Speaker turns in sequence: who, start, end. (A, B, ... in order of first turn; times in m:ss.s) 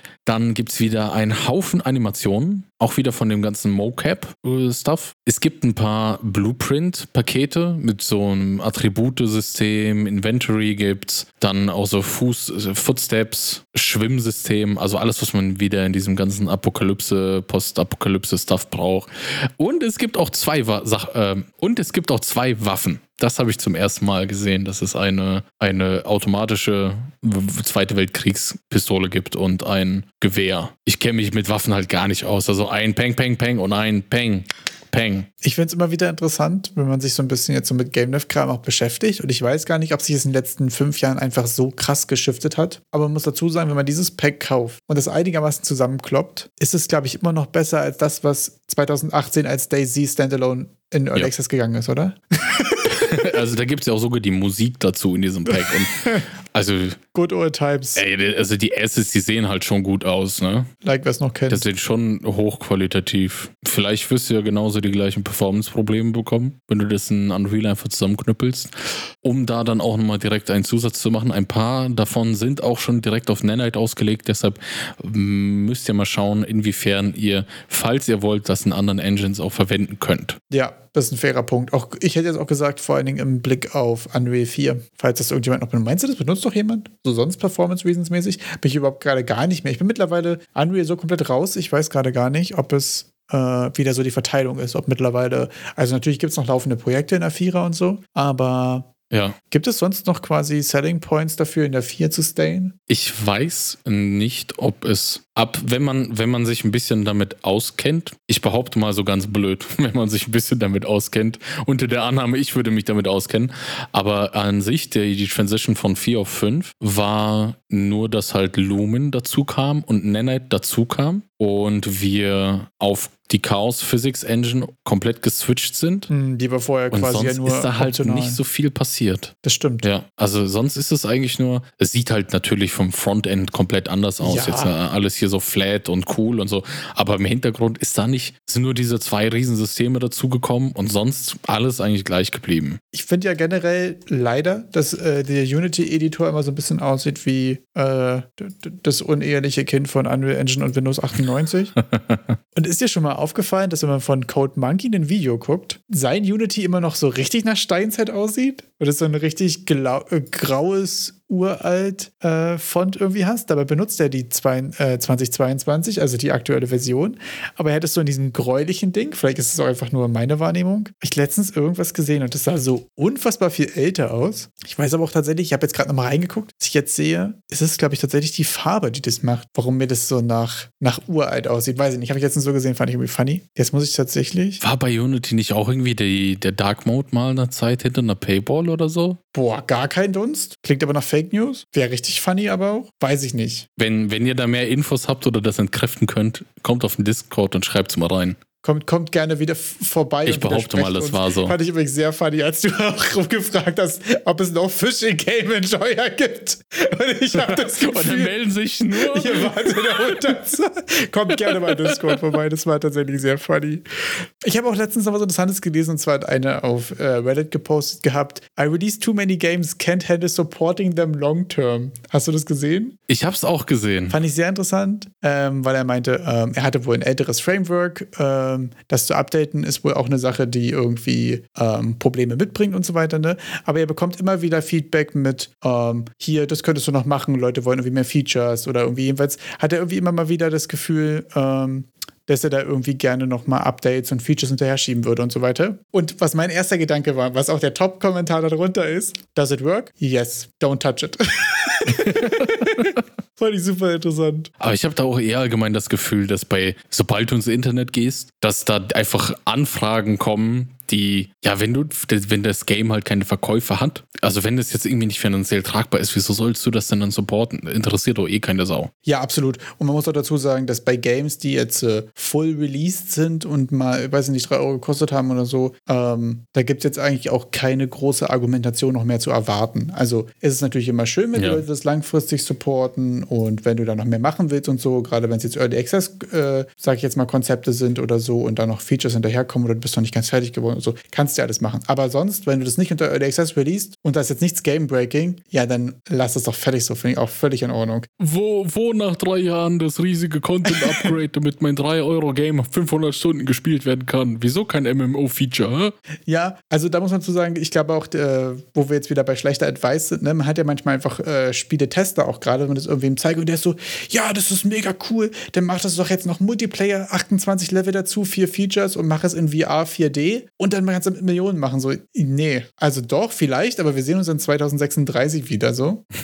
0:00.2-0:35.3 A
0:35.4-0:53.1 B
0:52.9-0:57.0 A
0:55.5-0:56.2 B
0:57.1-0:58.0 B
0:58.0-1:00.7 A
1:00.8-1:01.7 B
1:01.5-1:20.4 A
1:20.5-1:38.9 B
1:39.1-1:39.4 A
1:39.5-1:42.7 B
1:42.9-2:06.1 A
2:06.1-2:08.4 B
2:06.9-2:22.8 A
2:09.4-2:09.9 B
2:14.2-2:14.7 B
2:22.9-2:31.7 B
2:31.9-2:32.2 A
2:32.6-3:04.6 B
3:04.6-3:09.2 A
3:09.3-3:13.7 B
3:13.8-3:18.4 A
3:18.6-3:28.4 B
3:20.3-3:21.6 A
3:27.3-3:30.2 A
3:29.0-3:43.0 B
3:31.5-3:32.2 A
3:43.1-3:44.2 A
3:44.1-4:14.5 B
4:12.0-4:12.8 A
4:14.6-4:28.9 A
4:29.1-4:58.1 B
4:41.4-4:41.6 A
4:58.2-5:06.0 A
5:00.7-5:01.1 B
5:06.3-5:26.0 B